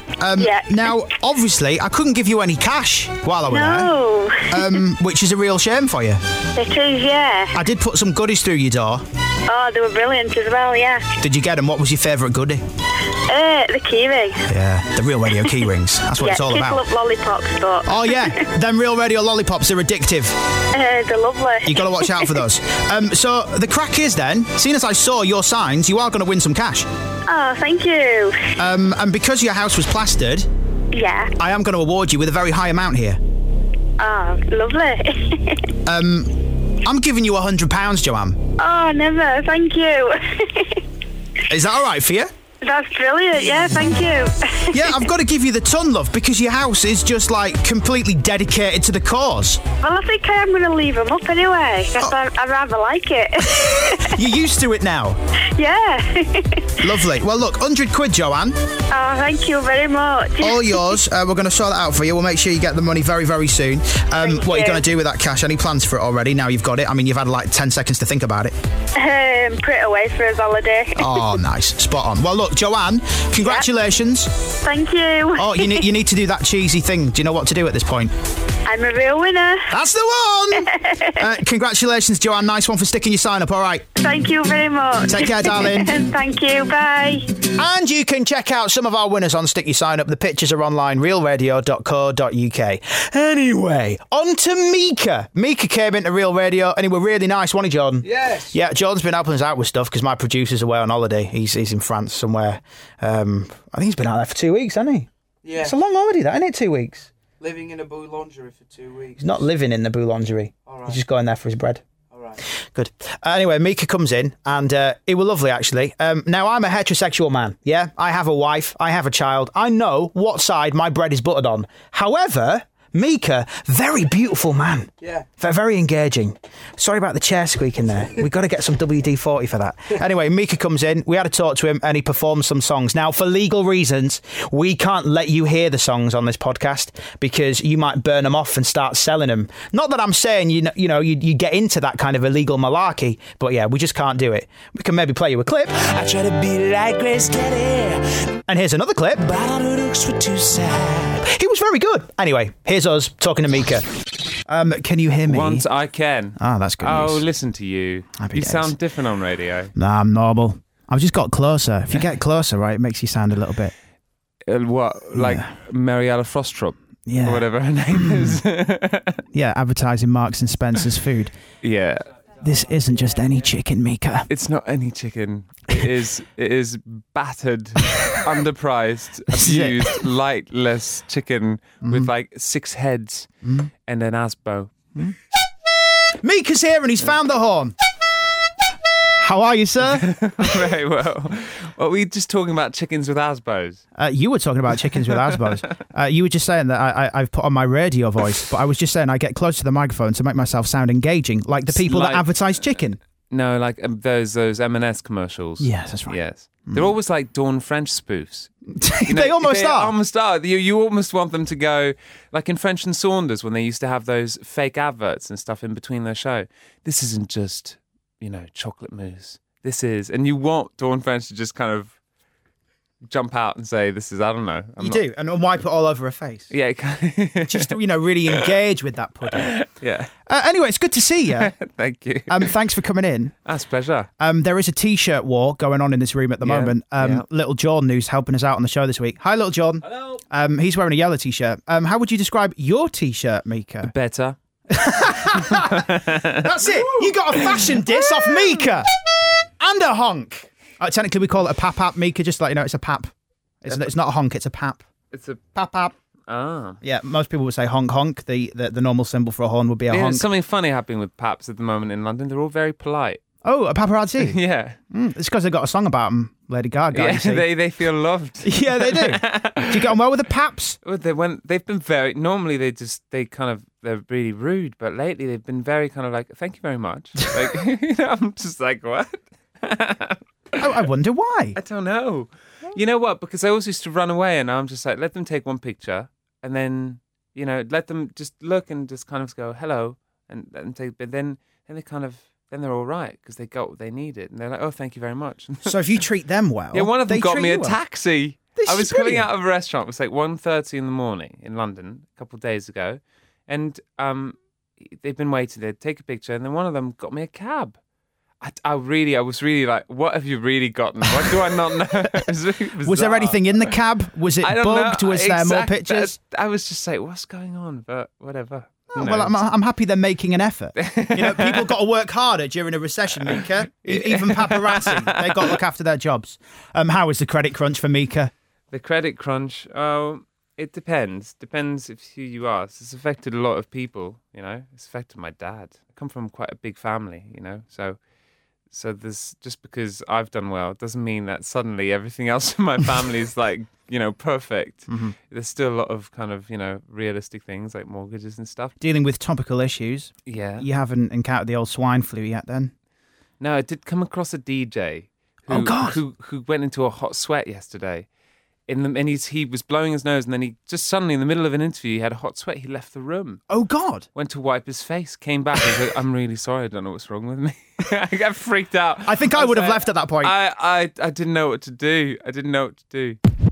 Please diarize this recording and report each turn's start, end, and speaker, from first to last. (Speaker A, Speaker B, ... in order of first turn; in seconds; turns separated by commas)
Speaker A: 0.2-6.2, Speaker B: 0.4-0.7, Speaker B: 3.5-4.6, Speaker B: 6.5-7.5, Speaker A: 7.5-9.0, Speaker B: 9.5-11.1, Speaker A: 11.2-12.6, Speaker B: 13.2-14.4, Speaker A: 14.5-16.9, Speaker B: 16.2-17.9, Speaker A: 17.8-20.4, Speaker B: 20.7-22.2, Speaker A: 21.6-26.9, Speaker B: 27.3-28.4, Speaker A: 28.6-30.4, Speaker B: 30.9-31.3, Speaker A: 31.4-33.2, Speaker B: 34.0-35.7, Speaker A: 35.9-38.4, Speaker B: 38.6-40.8, Speaker A: 41.5-42.3, Speaker B: 42.6-44.7, Speaker A: 44.7-49.6, Speaker B: 49.8-54.1, Speaker A: 53.4-55.2, Speaker B: 55.6-56.7, Speaker A: 56.8-58.5, Speaker B: 58.9-60.9, Speaker A: 60.4-68.5, Speaker B: 64.2-64.8, Speaker B: 69.0-71.0, Speaker A: 71.0-74.3, Speaker B: 74.6-75.8, Speaker A: 75.4-78.1, Speaker B: 78.7-79.7, Speaker A: 79.7-83.8, Speaker B: 80.6-81.2, Speaker B: 84.0-87.3, Speaker A: 85.0-86.0, Speaker A: 87.4-105.1, Speaker C: 98.0-98.5, Speaker C: 105.4-105.7, Speaker A: 105.6-107.1, Speaker C: 107.4-109.4, Speaker A: 109.2-111.8, Speaker C: 110.7-111.0, Speaker C: 112.1-112.4, Speaker A: 112.7-145.8, Speaker C: 125.0-125.2, Speaker D: 146.1-146.4, Speaker E: 146.3-147.8, Speaker A: 148.5-149.4, Speaker E: 149.6-150.9, Speaker D: 149.8-150.1, Speaker A: 151.2-153.8, Speaker A: 154.4-155.7, Speaker D: 155.3-159.7, Speaker A: 156.4-157.2, Speaker A: 158.2-158.7, Speaker A: 159.8-163.7, Speaker D: 164.5-169.2, Speaker A: 165.1-165.4, Speaker A: 167.1-168.4, Speaker A: 169.3-171.3, Speaker D: 171.6-172.0, Speaker A: 172.4-174.3, Speaker D: 174.3-183.3, Speaker A: 179.3-179.9, Speaker A: 181.8-182.1, Speaker A: 183.4-183.7, Speaker D: 183.8-184.7, Speaker A: 186.2-187.7, Speaker A: 189.2-190.1, Speaker D: 190.0-193.8, Speaker A: 194.0-203.0, Speaker D: 201.7-202.4, Speaker D: 203.3-208.5, Speaker A: 205.6-206.9, Speaker A: 208.7-209.9, Speaker D: 209.0-221.9, Speaker D: 223.1-225.0, Speaker A: 224.8-226.5, Speaker D: 226.5-227.7, Speaker A: 227.4-229.6, Speaker D: 229.3-230.1, Speaker A: 230.3-231.5, Speaker D: 231.3-232.5, Speaker A: 232.3-233.3, Speaker D: 233.4-234.1, Speaker A: 234.2-243.9, Speaker D: 236.4-237.2, Speaker D: 243.8-244.3, Speaker A: 244.7-248.9, Speaker D: 245.3-246.3, Speaker A: 249.6-253.1, Speaker A: 253.6-254.8, Speaker D: 255.1-255.4, Speaker A: 255.5-255.9, Speaker D: 256.3-256.8, Speaker A: 256.8-260.3, Speaker D: 259.9-263.2, Speaker A: 263.4-264.4, Speaker D: 264.2-264.8, Speaker A: 264.9-267.5, Speaker D: 266.9-269.9, Speaker A: 268.4-270.8, Speaker D: 270.8-280.7, Speaker A: 280.6-281.6, Speaker D: 281.6-296.0, Speaker A: 295.6-297.8, Speaker D: 296.7-307.8, Speaker A: 298.6-299.3, Speaker D: 308.4-313.7, Speaker A: 312.8-316.1, Speaker D: 314.4-319.4, Speaker A: 318.9-328.3, Speaker D: 320.8-321.7, Speaker D: 323.8-325.5, Speaker D: 328.7-338.0, Speaker D: 338.7-348.7, Speaker A: 344.9-345.1, Speaker A: 348.8-352.7, Speaker D: 350.2-350.6, Speaker D: 353.4-358.1, Speaker A: 355.5-356.0, Speaker D: 358.7-363.4, Speaker A: 363.5-364.1, Speaker D: 364.1-373.2, Speaker A: 369.0-370.3